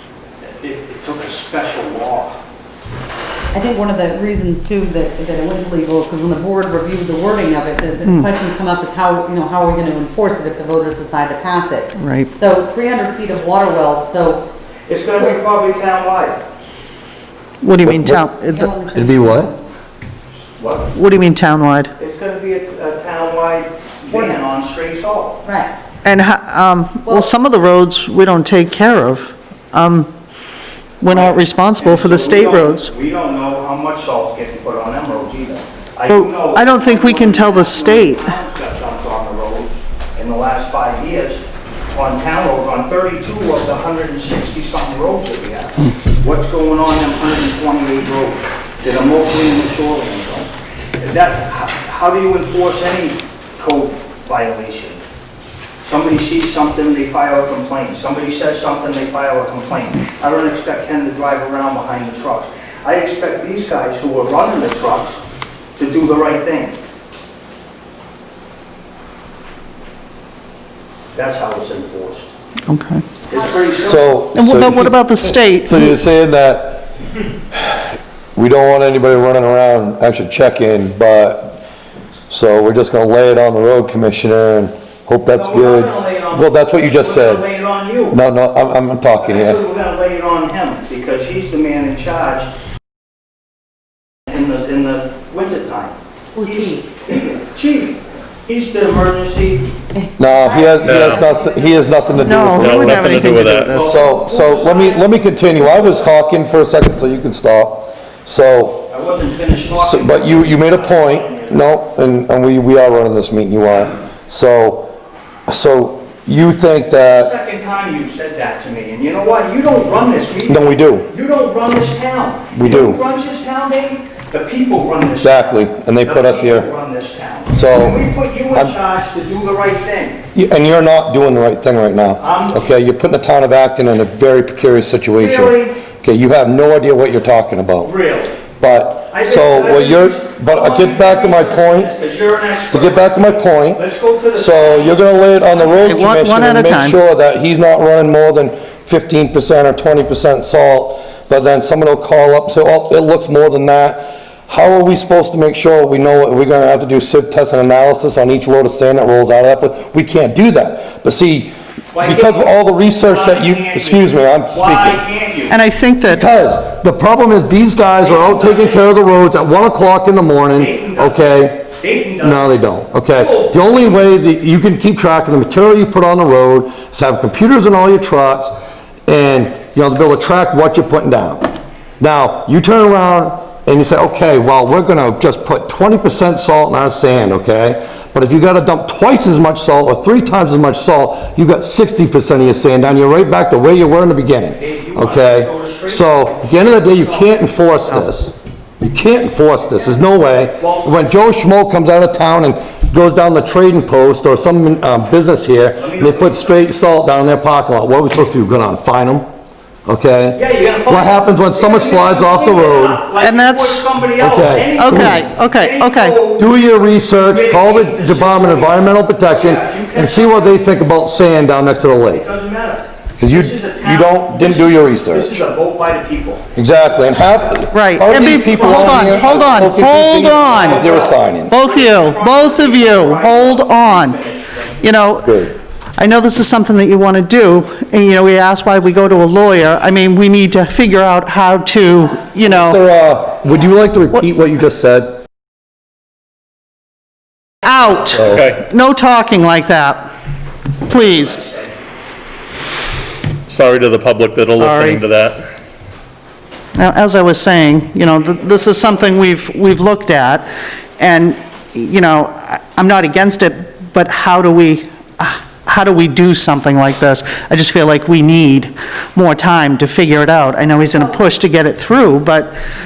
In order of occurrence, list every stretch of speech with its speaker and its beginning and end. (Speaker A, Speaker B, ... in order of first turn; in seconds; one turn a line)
Speaker A: 0.4-2.4
Speaker B: 3.5-14.4
Speaker C: 8.0-8.3
Speaker C: 12.0-12.3
Speaker A: 14.9-16.4
Speaker C: 17.6-18.8
Speaker D: 17.8-18.2
Speaker B: 18.4-19.6
Speaker D: 18.9-19.5
Speaker A: 20.5-20.9
Speaker C: 20.9-21.9
Speaker A: 22.0-25.4
Speaker B: 24.1-24.4
Speaker B: 25.4-25.7
Speaker C: 26.0-30.1
Speaker B: 27.1-27.3
Speaker C: 31.0-32.9
Speaker A: 31.1-55.0
Speaker C: 36.1-38.2
Speaker A: 55.8-65.2
Speaker A: 65.8-66.8
Speaker A: 71.1-72.3
Speaker C: 72.7-73.0
Speaker A: 73.3-74.2
Speaker D: 73.8-76.9
Speaker C: 74.3-76.0
Speaker D: 77.5-77.8
Speaker D: 78.3-81.6
Speaker D: 82.3-87.5
Speaker A: 85.3-88.2
Speaker D: 88.1-89.6
Speaker A: 89.2-92.5
Speaker A: 94.3-99.7
Speaker B: 96.3-96.9
Speaker B: 99.9-102.4
Speaker D: 100.2-108.9
Speaker E: 100.8-101.3
Speaker C: 102.2-104.0
Speaker E: 102.5-103.7
Speaker A: 103.7-106.1
Speaker A: 108.9-111.7
Speaker D: 109.7-114.9
Speaker D: 115.5-117.3
Speaker A: 117.1-130.2
Speaker D: 120.5-121.0
Speaker D: 122.5-123.0
Speaker D: 125.2-126.7
Speaker D: 127.5-128.8
Speaker D: 130.3-137.9
Speaker A: 132.2-132.6
Speaker A: 135.2-135.8
Speaker A: 137.8-138.4
Speaker D: 138.6-141.9
Speaker A: 139.1-146.1
Speaker D: 142.7-143.8
Speaker D: 144.3-165.0
Speaker C: 145.8-147.0
Speaker A: 161.9-165.6
Speaker C: 165.5-166.2
Speaker D: 166.0-171.7
Speaker A: 168.0-168.9
Speaker A: 170.5-172.5
Speaker D: 172.2-178.5
Speaker A: 173.1-173.8
Speaker D: 179.1-209.3
Speaker A: 194.6-198.0
Speaker A: 199.7-201.2
Speaker A: 205.8-206.7
Speaker D: 209.8-213.0
Speaker A: 210.3-220.7
Speaker C: 213.2-213.8
Speaker D: 214.2-215.2
Speaker C: 214.8-216.2
Speaker D: 216.4-222.2
Speaker A: 222.1-234.9
Speaker D: 223.2-225.4
Speaker D: 226.5-231.5
Speaker C: 227.7-230.9
Speaker C: 231.5-234.2
Speaker C: 234.8-242.8
Speaker D: 235.2-235.5
Speaker D: 242.4-245.2
Speaker C: 247.6-250.1
Speaker D: 248.1-248.4
Speaker E: 248.2-248.6
Speaker C: 250.9-251.4
Speaker E: 253.5-255.4
Speaker C: 254.6-255.0
Speaker C: 256.7-260.4
Speaker C: 261.0-272.5
Speaker B: 270.9-271.2